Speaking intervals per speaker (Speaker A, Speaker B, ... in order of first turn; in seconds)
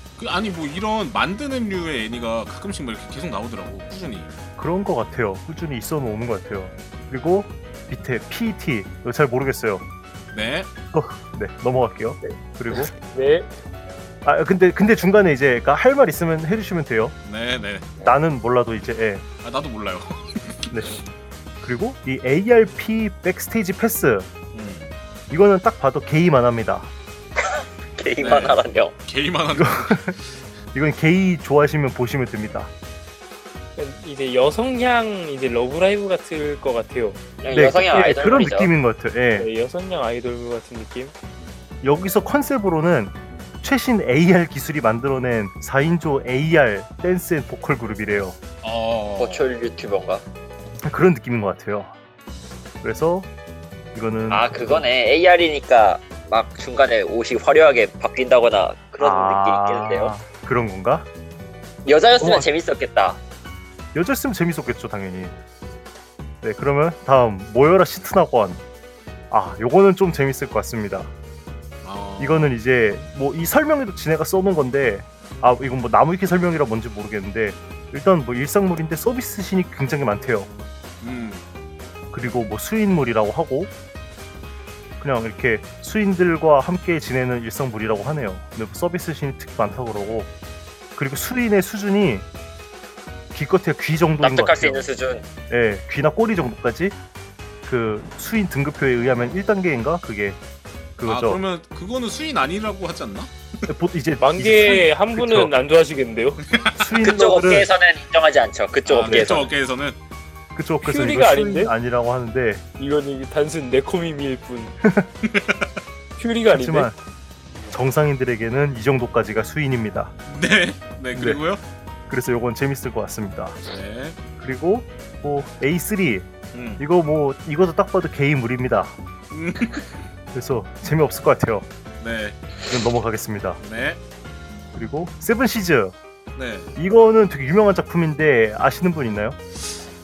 Speaker A: 0.2-4.3, 10.3-10.7, 17.2-17.9, 19.4-20.8, 24.5-24.9, 28.2-30.2, 48.6-49.5, 71.8-72.5, 81.0-81.4, 101.0-103.3, 106.5-106.9, 108.8-110.0, 115.2-115.7, 120.2-121.6, 123.6-124.2, 126.5-126.8, 129.3-130.0, 132.0-132.4, 133.6-134.0, 136.3-136.7
Speaker B: 4.6-9.8, 10.9-12.9, 14.2-17.1, 18.0-19.2, 21.6-24.3, 25.3-26.9, 29.5-30.1, 30.7-32.7, 37.5-39.5, 41.8-48.4, 50.8-51.9, 52.8-53.3, 53.9-54.9, 59.0-61.1, 62.2-62.5, 63.9-65.3, 66.4-68.6, 69.3-71.1, 72.2-80.5, 82.1-83.7, 85.0-90.3, 91.0-92.3, 93.3-94.8, 95.5-97.0, 97.6-100.4, 101.0-101.4, 103.7-105.5, 106.7-107.7, 109.0-109.3, 110.5-112.6, 116.5-117.0, 117.7-120.1, 121.1-121.4, 122.1-123.6, 124.4-128.9, 130.3-131.7, 132.7-133.6, 134.7-136.0, 136.8-139.4
Speaker C: 12.2-13.5, 33.8-37.2, 39.4-41.1, 104.2-106.4, 110.8-111.7, 112.8-114.8, 116.2-116.9
Speaker D: 28.0-28.9, 37.4-38.7, 49.2-50.2, 54.3-60.1, 61.8-63.2, 94.2-95.2, 107.0-109.5